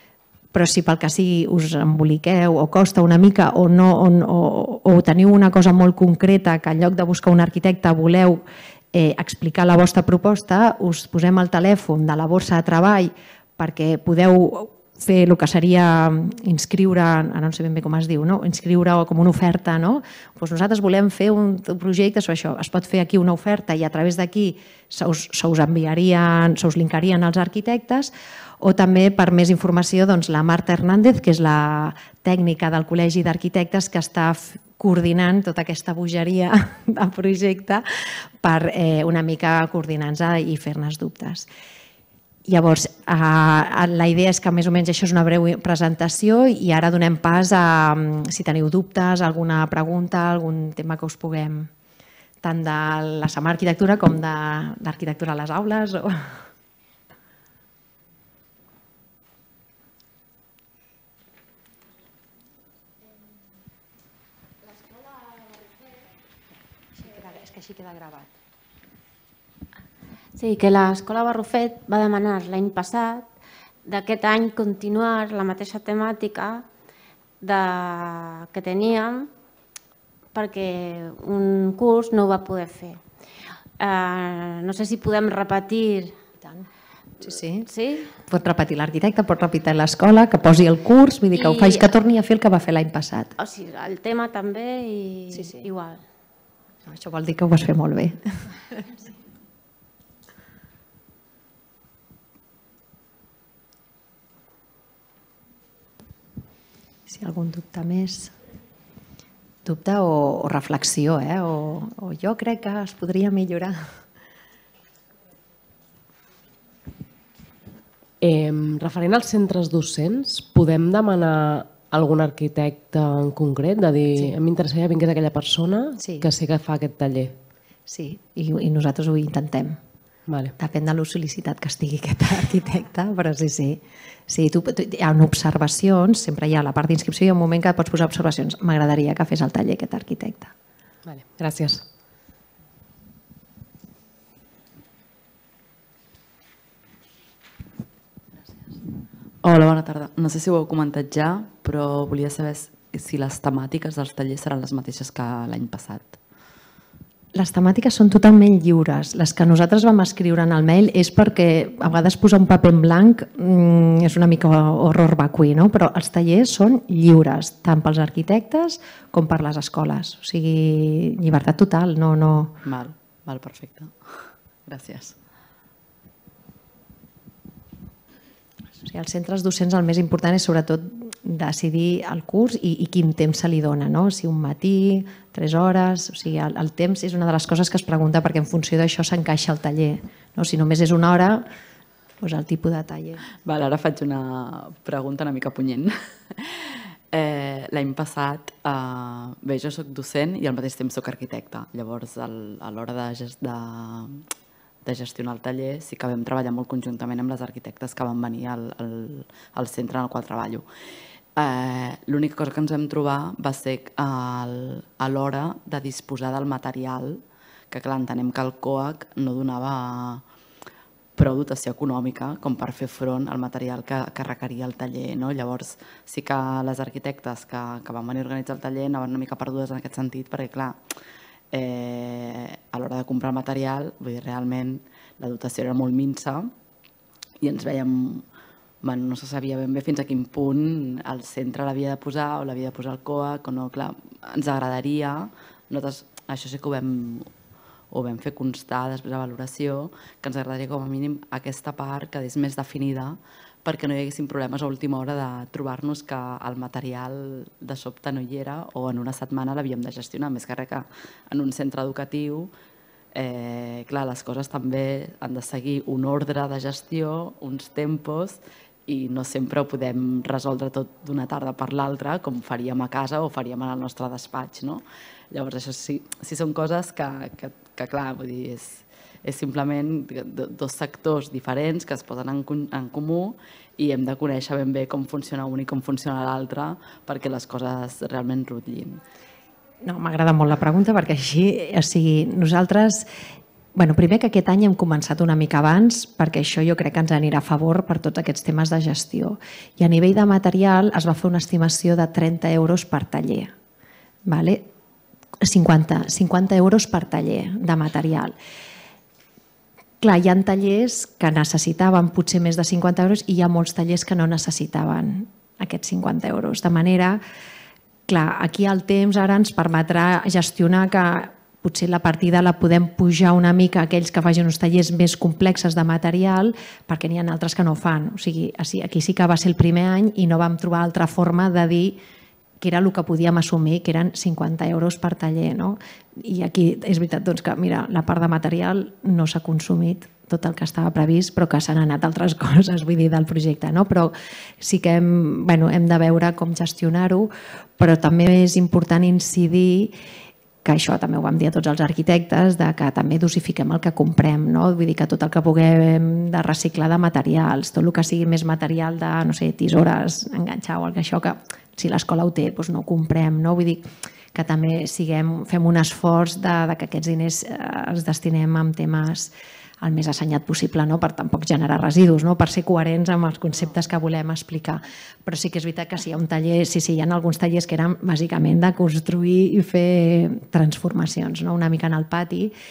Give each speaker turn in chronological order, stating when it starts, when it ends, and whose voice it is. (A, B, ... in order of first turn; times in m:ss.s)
0:00.5-0:08.4 A
0:08.9-0:37.8 A
0:38.4-0:41.5 A
0:42.5-0:51.7 A
0:52.4-0:56.3 A
1:07.0-1:08.3 A
1:10.4-1:13.3 B
1:13.8-1:16.6 B
1:17.4-1:19.3 B
1:20.3-1:23.0 B
1:23.8-1:26.2 B
1:27.2-1:27.7 A
1:27.7-1:28.1 B
1:28.3-1:33.4 A
1:31.4-1:31.9 B
1:33.4-1:36.0 B
1:35.3-1:35.6 A
1:36.9-1:38.2 A
1:47.1-1:48.3 A
1:49.6-1:53.8 A
1:58.2-2:07.3 C
2:06.0-2:06.3 A
2:07.9-2:09.8 A
2:10.3-2:10.5 C
2:10.6-2:20.5 A
2:21.1-2:21.8 C
2:29.4-2:36.2 D
2:37.4-2:52.5 A
2:52.6-2:54.1 D
2:54.7-2:55.2 D
2:58.8-3:11.5 A
3:12.2-3:13.2 A
3:13.4-3:24.2 D
3:24.8-3:30.6 D
3:31.4-3:40.2 D
3:41.2-3:50.8 D
3:51.5-3:56.5 D
3:57.4-3:58.2 D
3:58.8-4:07.3 D
4:07.9-4:22.5 D
4:23.1-4:49.0 D
4:49.8-4:53.1 A
4:53.8-5:03.5 A
5:04.3-5:04.7 A
5:05.4-5:08.4 A
5:10.0-5:17.2 A
5:18.1-5:32.0 A
5:32.6-5:49.9 A
5:50.6-6:22.5 A